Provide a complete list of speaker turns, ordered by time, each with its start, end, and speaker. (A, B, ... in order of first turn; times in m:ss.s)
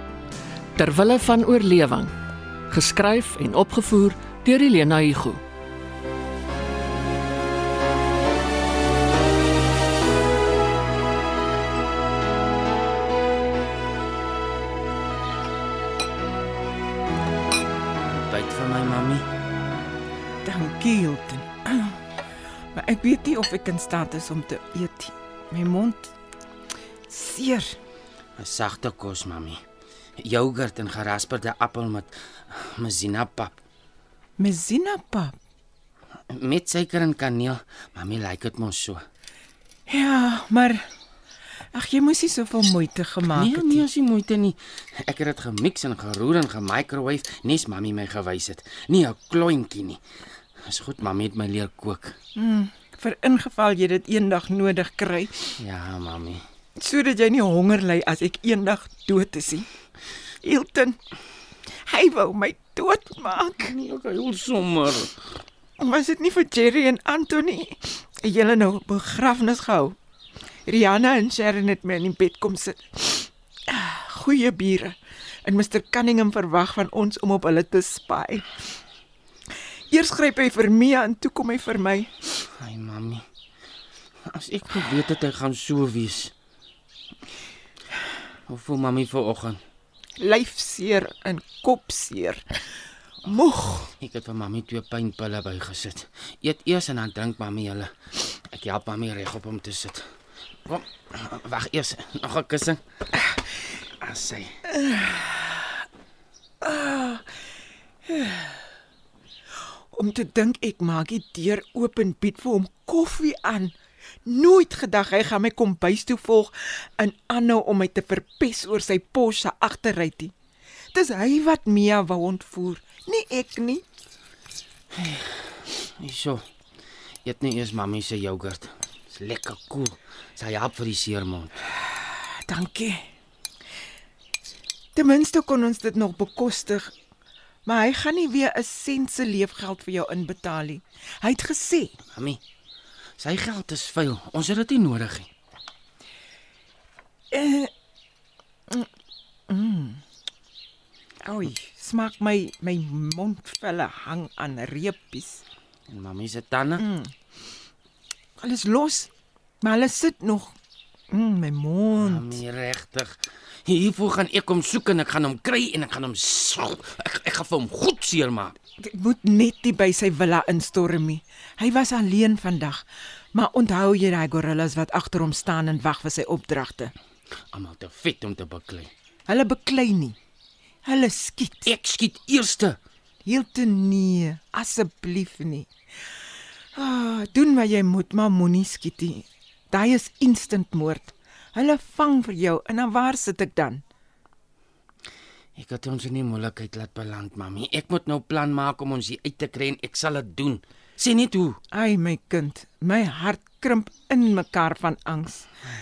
0:00.8-0:02.1 A
0:02.7-0:05.4 A
0:18.1-0:19.3 B
0:20.4-0:22.0 C
0:22.8-0:26.1 C
0:27.1-0:27.8 C
0:28.4-0:29.6 B
0:30.2-0:33.6 B
0:34.4-0:35.4 C
0:36.3-0:39.0 B
0:39.9-0:40.8 C
0:41.7-0:43.8 C
0:43.3-0:50.0 B
0:50.7-0:52.2 B
0:52.4-0:55.6 C
0:55.6-0:56.4 B
0:56.8-0:59.7 C
1:00.4-1:01.0 C
1:01.9-1:03.7 C
1:03.6-1:05.2 B
1:05.8-1:10.0 C
1:10.7-1:18.7 C
1:19.9-1:22.1 C
1:22.6-1:23.2 B
1:24.3-1:26.3 B
1:28.5-1:29.6 B
1:30.2-1:32.4 C
1:33.2-1:33.9 C
1:34.0-1:37.9 B
1:38.5-1:40.0 B
1:40.7-1:42.8 B
1:44.0-1:44.5 B
1:44.7-1:45.8 C
1:46.6-1:47.2 C
1:48.1-1:48.6 C
1:49.9-1:53.7 C
1:54.3-2:00.3 C
2:00.9-2:03.8 C
2:05.0-2:06.4 B
2:07.2-2:11.5 B
2:12.5-2:13.0 C
2:15.0-2:16.9 C
2:17.7-2:22.0 C
2:23.2-2:25.3 B
2:27.3-2:27.7 C
2:29.5-2:30.0 C
2:31.2-2:35.4 C
2:35.9-2:36.8 B
2:36.8-2:37.1 C
2:38.4-2:39.1 C
2:39.6-2:40.6 C
2:41.1-2:42.4 C
2:42.0-2:43.2 B
2:43.7-2:48.6 B
2:48.8-2:56.9 C
2:57.5-2:58.9 B
2:59.3-3:00.2 C
3:00.8-3:01.7 C
3:01.6-3:02.8 B
3:03.2-3:05.7 C
3:06.8-3:13.8 C
3:15.6-3:21.6 B
3:21.7-3:25.5 C